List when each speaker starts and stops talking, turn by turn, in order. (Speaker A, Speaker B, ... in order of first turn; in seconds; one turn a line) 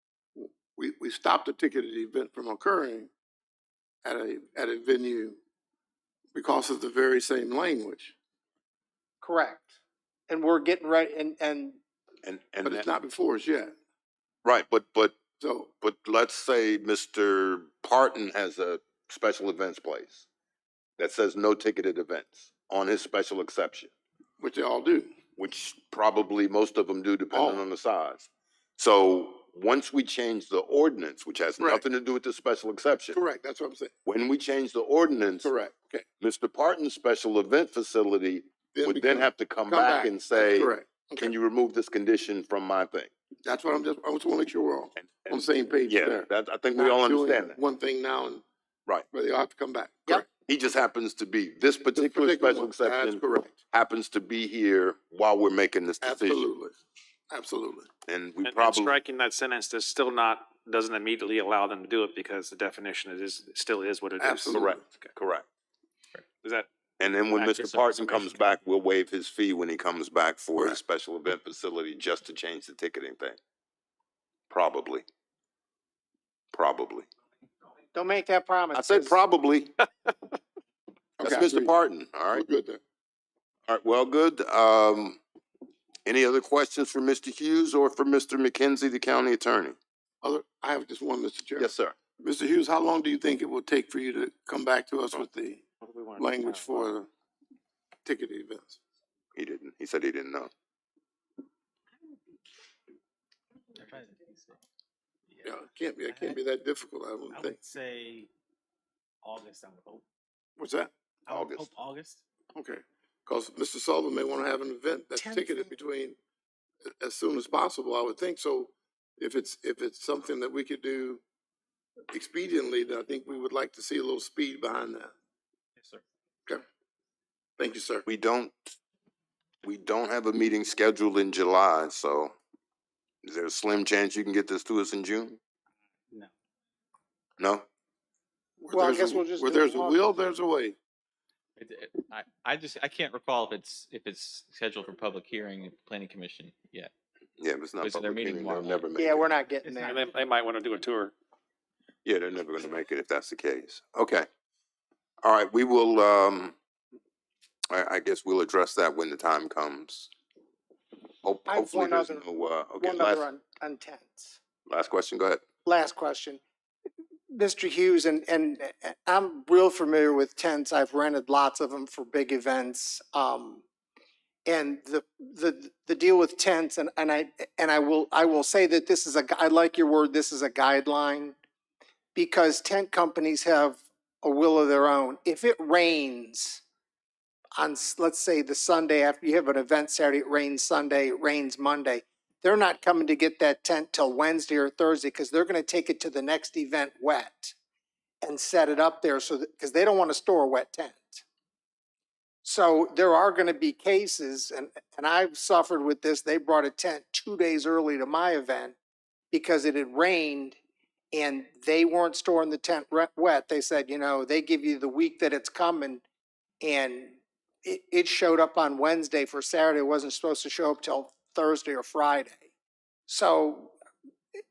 Speaker A: 0.3-3.1
Speaker A: 4.0-5.4
Speaker A: 6.3-8.1
Speaker B: 9.2-9.8
Speaker B: 10.3-11.8
Speaker C: 12.2-12.9
Speaker A: 12.6-13.7
Speaker C: 14.4-15.1
Speaker A: 15.4-15.7
Speaker C: 15.8-20.2
Speaker C: 21.0-23.9
Speaker A: 24.4-25.1
Speaker C: 25.4-33.2
Speaker A: 27.3-27.6
Speaker A: 31.6-31.8
Speaker A: 33.1-33.9
Speaker C: 34.0-35.5
Speaker A: 35.4-36.0
Speaker C: 36.2-43.1
Speaker A: 38.8-41.3
Speaker A: 43.4-48.4
Speaker C: 45.0-47.6
Speaker A: 49.1-50.2
Speaker C: 50.3-56.5
Speaker A: 51.9-53.5
Speaker A: 56.0-56.8
Speaker A: 57.3-57.9
Speaker C: 58.1-59.0
Speaker D: 58.4-65.1
Speaker A: 64.2-64.8
Speaker C: 64.5-65.5
Speaker D: 66.4-66.7
Speaker C: 67.0-73.4
Speaker D: 67.3-68.2
Speaker E: 67.8-68.5
Speaker C: 74.5-75.0
Speaker C: 76.5-77.1
Speaker B: 77.9-79.2
Speaker C: 78.7-79.7
Speaker A: 81.2-81.7
Speaker C: 81.2-82.5
Speaker A: 82.3-82.8
Speaker C: 83.7-85.2
Speaker C: 86.0-89.8
Speaker A: 90.2-95.6
Speaker C: 91.6-91.9
Speaker D: 95.8-96.6
Speaker A: 96.2-97.1
Speaker A: 98.0-98.8
Speaker C: 99.3-100.5
Speaker E: 103.8-104.5
Speaker F: 103.8-104.4
Speaker A: 105.4-107.6
Speaker F: 107.4-108.3
Speaker F: 109.2-110.0
Speaker A: 110.6-110.9
Speaker F: 111.3-112.2
Speaker C: 111.3-111.7
Speaker A: 112.5-116.2
Speaker B: 115.2-115.7
Speaker A: 117.0-121.2
Speaker A: 122.1-125.1
Speaker A: 127.6-128.0
Speaker C: 128.1-128.8
Speaker C: 129.6-132.3
Speaker C: 133.2-135.4
Speaker C: 137.4-137.6
Speaker A: 138.6-140.8
Speaker B: 138.7-140.0
Speaker E: 141.6-146.9
Speaker C: 147.4-149.3
Speaker E: 147.8-148.9
Speaker B: 149.0-150.0
Speaker F: 149.6-150.3
Speaker D: 149.8-151.1
Speaker C: 152.0-154.3
Speaker C: 155.2-156.5
Speaker C: 157.7-160.1
Speaker C: 161.2-163.2
Speaker B: 161.5-162.2
Speaker B: 162.8-164.4
Speaker C: 164.7-165.4
Speaker B: 165.6-166.4
Speaker B: 167.3-173.6
Speaker B: 174.4-181.3
Speaker B: 182.1-186.6
Speaker B: 187.6-197.5
Speaker B: 198.2-201.2
Speaker B: 202.4-208.8
Speaker B: 209.3-210.6
Speaker B: 211.1-216.0
Speaker B: 216.6-222.5
Speaker B: 223.1-223.7